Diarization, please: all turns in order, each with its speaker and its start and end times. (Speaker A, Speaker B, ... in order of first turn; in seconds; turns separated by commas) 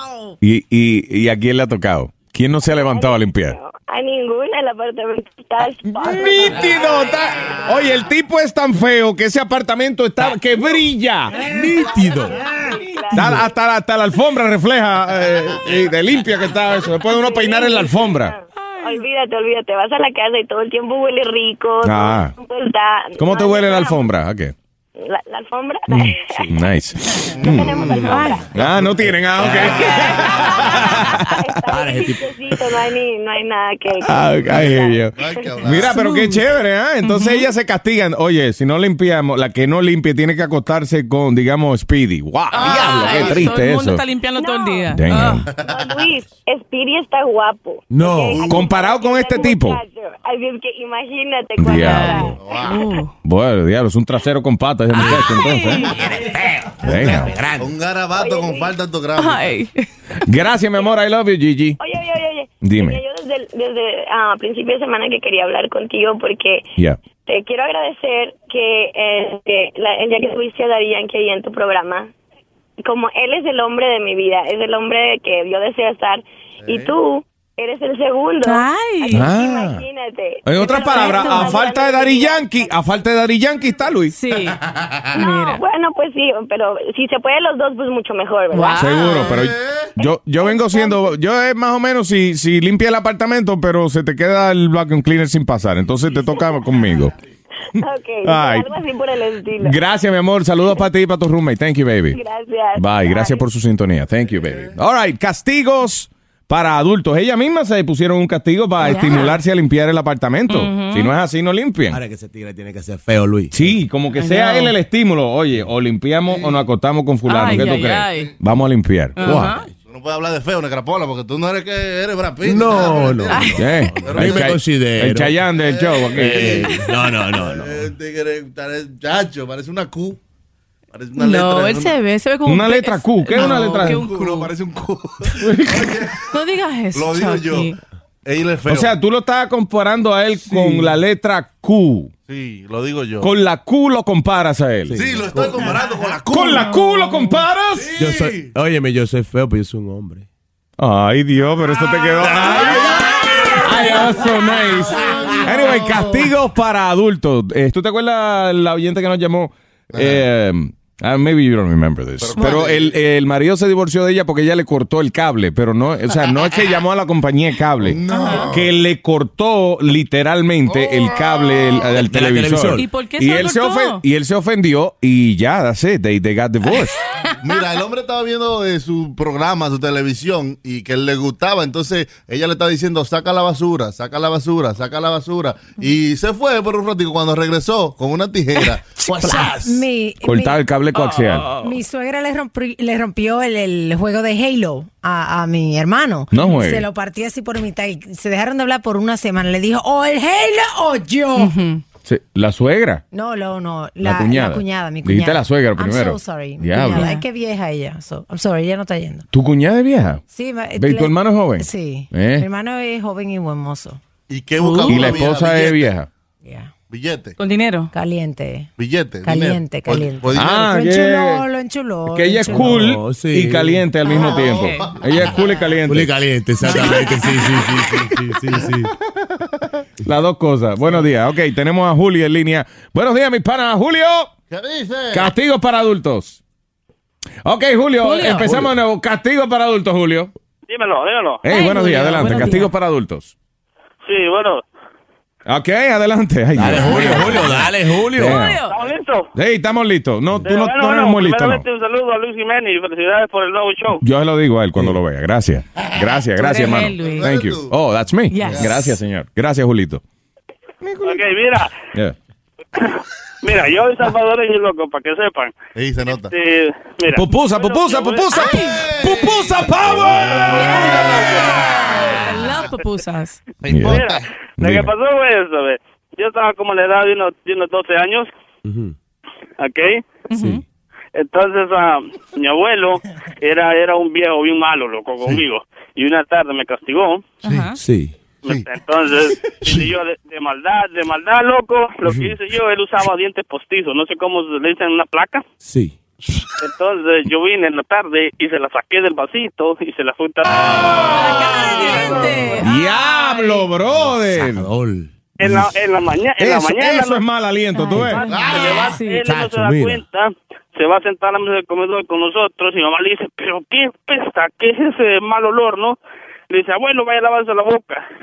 Speaker A: 0.4-3.6, Speaker B: 2.7-7.5, Speaker A: 5.9-11.5, Speaker C: 11.5-12.4, Speaker B: 11.8-13.4, Speaker A: 13.1-18.3, Speaker B: 17.1-24.1, Speaker D: 18.7-19.0, Speaker A: 21.8-22.4, Speaker A: 23.2-24.5, Speaker B: 25.0-26.5, Speaker A: 25.9-28.0, Speaker B: 27.4-28.5, Speaker C: 27.8-30.4, Speaker D: 28.1-28.4, Speaker A: 28.5-31.3, Speaker D: 29.8-30.3, Speaker B: 30.2-35.6, Speaker C: 31.7-32.3, Speaker A: 34.0-44.1, Speaker E: 34.4-36.0, Speaker D: 35.9-36.4, Speaker D: 37.0-37.5, Speaker D: 42.5-45.5, Speaker E: 42.6-43.5, Speaker B: 44.4-44.9, Speaker A: 44.9-45.5, Speaker B: 45.5-52.4, Speaker E: 45.5-46.1, Speaker C: 47.9-48.6, Speaker A: 48.4-49.8, Speaker A: 51.6-52.4, Speaker D: 51.8-53.1, Speaker E: 52.4-52.9, Speaker A: 53.2-55.9, Speaker C: 55.0-55.4, Speaker D: 55.4-55.9, Speaker C: 55.9-57.7, Speaker A: 56.8-57.4, Speaker E: 57.6-59.6, Speaker B: 58.1-58.8, Speaker D: 59.2-59.9, Speaker A: 60.3-61.8, Speaker B: 61.8-66.7, Speaker A: 62.6-63.0, Speaker B: 67.3-72.1, Speaker B: 72.8-82.8, Speaker E: 76.7-76.9, Speaker D: 78.4-79.3, Speaker A: 79.1-79.8, Speaker A: 80.4-84.2, Speaker D: 80.8-81.6, Speaker D: 84.1-84.6, Speaker B: 85.1-89.0, Speaker D: 85.2-85.6, Speaker D: 88.5-89.4, Speaker A: 88.8-97.1, Speaker E: 89.2-89.9, Speaker B: 90.4-91.1, Speaker B: 97.8-99.8, Speaker A: 98.2-98.7, Speaker A: 99.6-102.2, Speaker B: 102.1-103.4, Speaker A: 102.8-112.0, Speaker D: 108.8-109.4, Speaker D: 110.5-111.1, Speaker C: 111.9-113.7, Speaker A: 113.5-119.5, Speaker D: 114.2-114.7, Speaker E: 116.3-116.6, Speaker D: 117.3-118.3, Speaker E: 117.6-118.3, Speaker D: 119.2-119.7, Speaker E: 119.8-124.6, Speaker C: 122.4-125.4, Speaker D: 123.3-123.7, Speaker A: 123.6-126.6, Speaker E: 125.5-130.2, Speaker C: 126.2-127.9, Speaker E: 130.9-132.0, Speaker D: 131.2-134.5, Speaker A: 132.4-134.1, Speaker E: 133.3-136.3, Speaker A: 135.4-135.9, Speaker D: 136.3-137.8, Speaker E: 136.9-137.7, Speaker E: 138.2-138.9, Speaker A: 138.7-142.1, Speaker C: 140.5-140.9, Speaker E: 142.3-143.3, Speaker A: 143.2-145.0, Speaker C: 144.9-145.8, Speaker E: 144.9-146.8, Speaker A: 146.3-147.9, Speaker E: 147.8-148.5, Speaker C: 148.0-150.3, Speaker A: 150.8-153.0, Speaker E: 152.2-154.3, Speaker A: 153.6-177.0, Speaker E: 154.8-156.3, Speaker E: 159.9-160.2, Speaker E: 162.2-163.0, Speaker E: 167.8-168.7, Speaker D: 168.1-168.5, Speaker E: 170.7-171.8, Speaker C: 172.0-172.9, Speaker D: 172.8-174.0, Speaker E: 177.4-189.7, Speaker F: 189.2-190.6, Speaker A: 190.2-191.5, Speaker D: 191.0-191.5, Speaker F: 191.6-201.6, Speaker A: 196.3-196.9, Speaker D: 201.4-201.8, Speaker A: 202.0-203.0, Speaker F: 203.1-209.3, Speaker A: 204.0-207.1, Speaker D: 206.9-207.2, Speaker A: 209.3-210.2, Speaker F: 210.3-214.0, Speaker A: 210.8-212.5, Speaker E: 214.3-215.9, Speaker D: 214.6-215.1, Speaker A: 214.9-216.1, Speaker F: 216.4-216.7, Speaker E: 216.9-217.4, Speaker D: 217.4-217.9, Speaker F: 217.9-218.7, Speaker E: 218.8-220.6, Speaker F: 219.2-222.9, Speaker A: 220.3-221.4, Speaker A: 222.1-226.1, Speaker C: 222.5-223.9, Speaker D: 224.1-224.9, Speaker E: 224.1-225.0, Speaker C: 225.9-228.9, Speaker D: 226.8-227.0, Speaker E: 228.6-228.9, Speaker A: 230.1-234.3, Speaker E: 234.5-235.3, Speaker A: 235.1-236.4, Speaker A: 237.4-240.3, Speaker D: 238.0-238.5, Speaker C: 238.4-238.8, Speaker G: 240.7-241.4, Speaker A: 241.4-243.3, Speaker D: 241.5-242.7, Speaker G: 244.1-244.7, Speaker A: 245.5-248.6, Speaker C: 246.6-248.4, Speaker D: 246.8-247.4, Speaker D: 248.2-248.8, Speaker G: 248.7-249.3, Speaker A: 249.3-251.6, Speaker G: 250.4-254.0, Speaker A: 254.0-260.0, Speaker D: 256.4-257.3, Speaker E: 257.0-257.8, Speaker D: 258.3-259.0, Speaker E: 258.4-258.8, Speaker A: 260.8-261.2, Speaker G: 261.0-261.7, Speaker G: 262.8-265.5, Speaker E: 265.8-266.3, Speaker G: 266.2-268.3, Speaker A: 267.1-270.6, Speaker D: 268.3-268.8, Speaker E: 268.5-272.5, Speaker G: 270.3-271.7, Speaker D: 270.5-273.4, Speaker E: 273.6-274.2, Speaker A: 273.7-274.1, Speaker G: 273.8-278.3, Speaker A: 274.6-274.9, Speaker C: 278.6-278.9, Speaker G: 279.6-280.1, Speaker D: 280.3-280.6, Speaker C: 280.4-280.6, Speaker G: 281.1-287.3, Speaker D: 287.4-287.8, Speaker C: 287.8-288.2, Speaker G: 288.4-295.5, Speaker C: 292.1-292.3, Speaker C: 295.6-296.0, Speaker G: 296.6-302.6, Speaker D: 301.0-303.7, Speaker A: 302.6-304.7, Speaker C: 303.9-305.7, Speaker G: 305.4-307.2, Speaker A: 306.4-308.3, Speaker D: 307.7-309.2, Speaker G: 308.2-316.0, Speaker E: 308.3-308.7, Speaker C: 309.2-310.1, Speaker G: 316.5-318.0